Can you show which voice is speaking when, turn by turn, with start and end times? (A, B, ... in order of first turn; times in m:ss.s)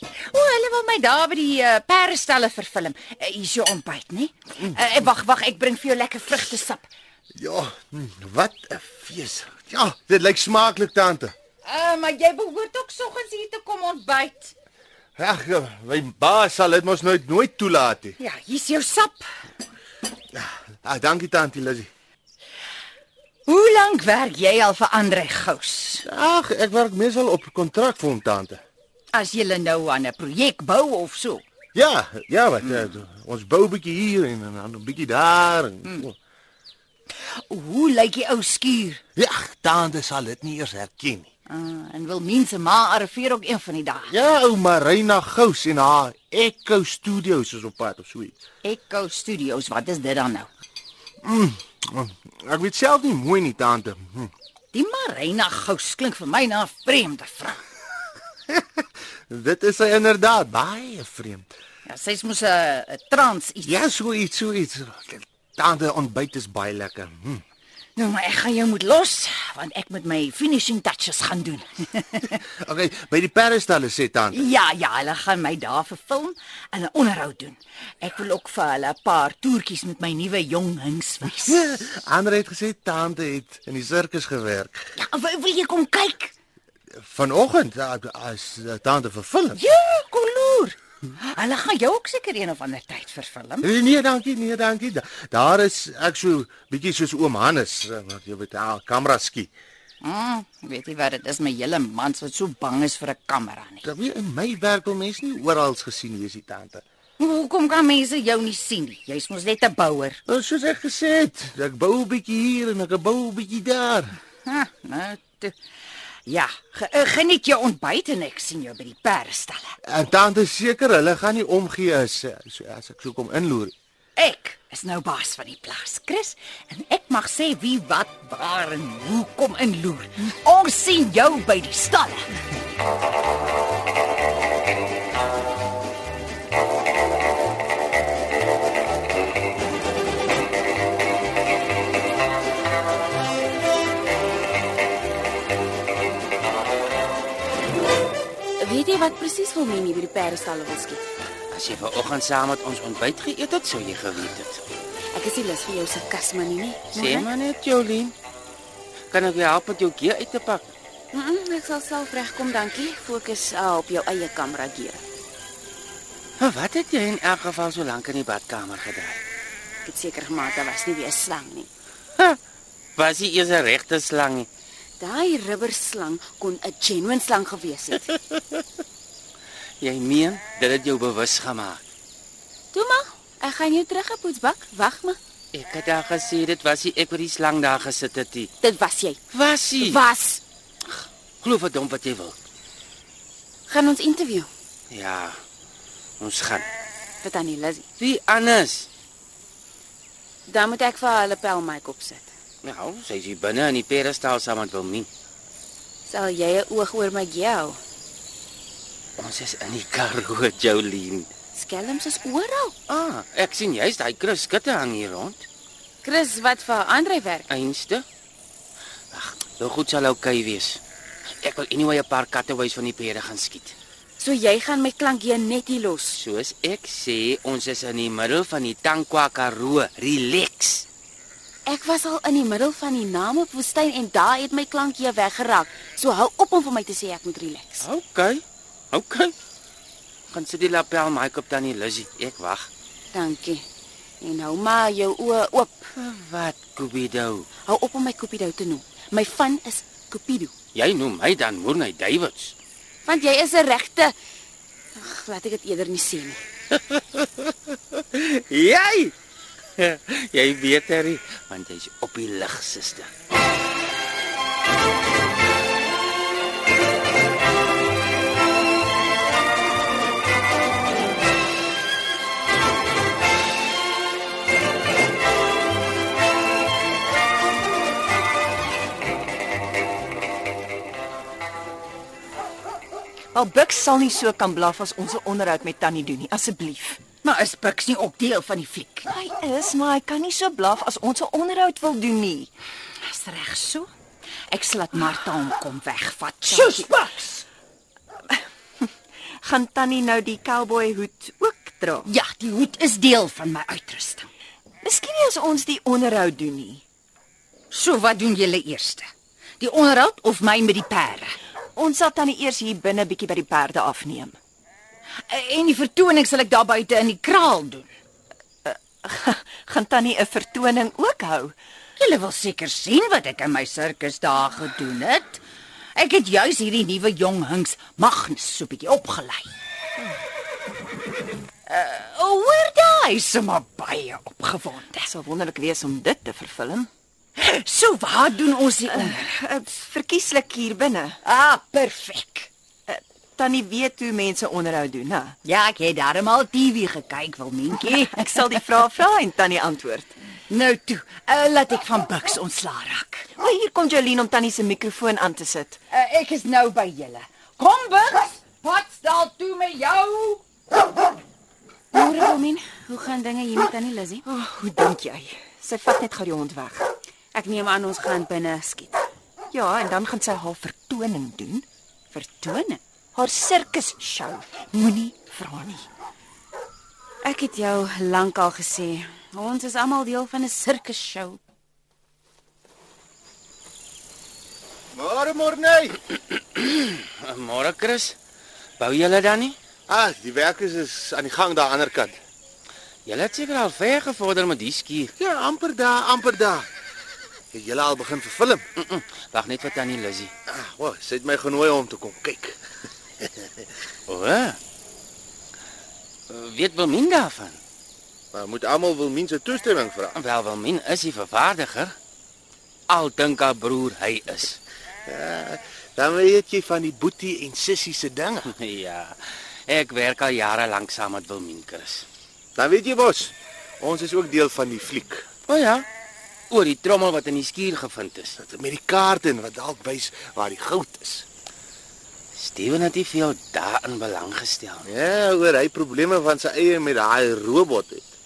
0:00.3-0:06.9 A
0:07.4-0:11.3 B
0:11.6-0:14.5 A
0:15.2-0:18.2 B
0:18.2-0:19.2 A
0:20.3-0:21.9 B
0:23.5-0:26.0 A
0:26.0-0:28.6 B
0:29.1-0:31.4 A
0:31.8-0:36.2 B
0:37.3-0:39.0 A
0:39.2-0:41.3 B
0:41.5-0:44.1 A
0:44.1-0:48.4 B
0:48.6-0:50.5 A
0:51.2-0:54.3 B
0:54.7-0:57.6 A
0:59.3-1:01.5 B
1:01.9-1:03.8 A
1:03.7-1:07.4 B
1:08.0-1:12.4 A
1:12.5-1:14.4 B
1:14.3-1:21.6 A
1:21.5-1:24.8 B
1:25.0-1:26.3 A
1:27.0-1:29.6 B
1:29.6-1:33.7 A
1:33.6-1:39.5 B
1:40.0-1:43.8 A
1:43.8-1:46.8 B
1:47.2-1:50.2 A
1:50.3-1:54.2 B
1:54.4-1:55.6 A
1:56.3-1:59.8 A
1:59.9-2:03.7 B
2:04.2-2:12.3 A
2:28.6-2:31.0 C
2:31.5-2:34.6 D
2:35.1-2:37.3 C
2:36.9-2:38.1 D
2:39.1-2:40.7 D
2:41.1-2:45.0 C
2:46.4-2:49.2 D
2:49.8-2:51.7 C
2:53.0-2:54.5 D
2:55.0-2:58.1 C
2:59.8-3:01.8 D
3:02.7-3:05.2 C
3:05.5-3:08.5 D
3:08.6-3:09.2 C
3:09.3-3:10.0 D
3:09.8-3:10.4 C
3:10.8-3:12.4 D
3:13.7-3:14.5 C
3:14.9-3:15.4 D
3:16.2-3:16.7 D
3:17.2-3:17.8 C
3:18.0-3:18.9 D
3:20.5-3:22.3 C
3:22.6-3:25.1 D
3:26.1-3:27.8 C
3:29.2-3:31.3 D
3:31.6-3:32.7 C
3:32.9-3:35.5 D
3:36.0-3:37.5 C
3:37.5-3:38.0 D
3:39.1-3:40.8 D
3:41.4-3:43.8 D
3:44.2-3:46.2 C
3:46.2-3:50.9 D
3:51.7-3:57.9 C
3:57.8-3:59.3 D
4:00.3-4:02.7 D
4:03.1-4:03.6 C
4:04.2-4:05.9 C
4:06.0-4:07.5 D
4:07.7-4:10.5 C
4:10.8-4:12.6 D
4:13.1-4:14.1 C
4:15.0-4:16.4 C
4:16.9-4:19.1 D
4:19.8-4:23.1 D
4:43.3-4:47.0 E
4:47.2-4:49.1 A
4:49.1-4:52.5 E
4:53.0-4:53.9 A
4:54.5-4:57.5 A
4:56.5-4:56.9 E
4:59.4-5:02.1 E
5:02.0-5:04.3 A
5:04.8-5:06.8 E
5:07.7-5:09.1 A
5:09.6-5:11.4 A
5:11.8-5:14.4 E
5:15.3-5:17.9 A
5:18.6-5:21.5 E
5:22.0-5:25.4 A
5:26.0-5:29.5 A
5:31.7-5:35.1 A
5:35.1-5:36.9 E
5:37.4-5:39.4 A
5:38.9-5:41.2 E
5:41.2-5:42.5 A
5:42.9-5:45.4 E
5:45.4-5:48.4 A
5:47.8-5:50.2 E
5:50.5-5:53.3 A
5:53.4-5:55.8 E
5:55.9-6:00.4 A
6:01.9-6:04.2 C
6:04.3-6:06.9 E
6:07.3-6:09.0 C
6:09.5-6:11.7 E
6:12.1-6:12.8 C
6:13.2-6:15.9 E
6:17.2-6:21.4 C
6:24.9-6:26.0 B
6:26.3-6:28.2 D
6:28.8-6:29.6 D
6:29.9-6:32.2 B
6:33.1-6:35.1 D
6:35.2-6:36.7 B
6:37.5-6:38.6 B
6:38.8-6:40.3 D
6:40.5-6:42.6 B
6:43.2-6:43.6 B
6:44.1-6:44.6 D
6:46.3-6:47.6 D
6:48.3-6:50.2 B
6:50.2-6:52.0 D
6:52.9-6:54.6 D
6:55.1-6:58.5 B
6:58.5-7:02.1 D
7:02.6-7:05.2 B
7:05.5-7:05.9 D
7:06.5-7:08.4 D
7:08.4-7:11.3 B
7:12.4-7:14.9 D
7:14.9-7:18.1 B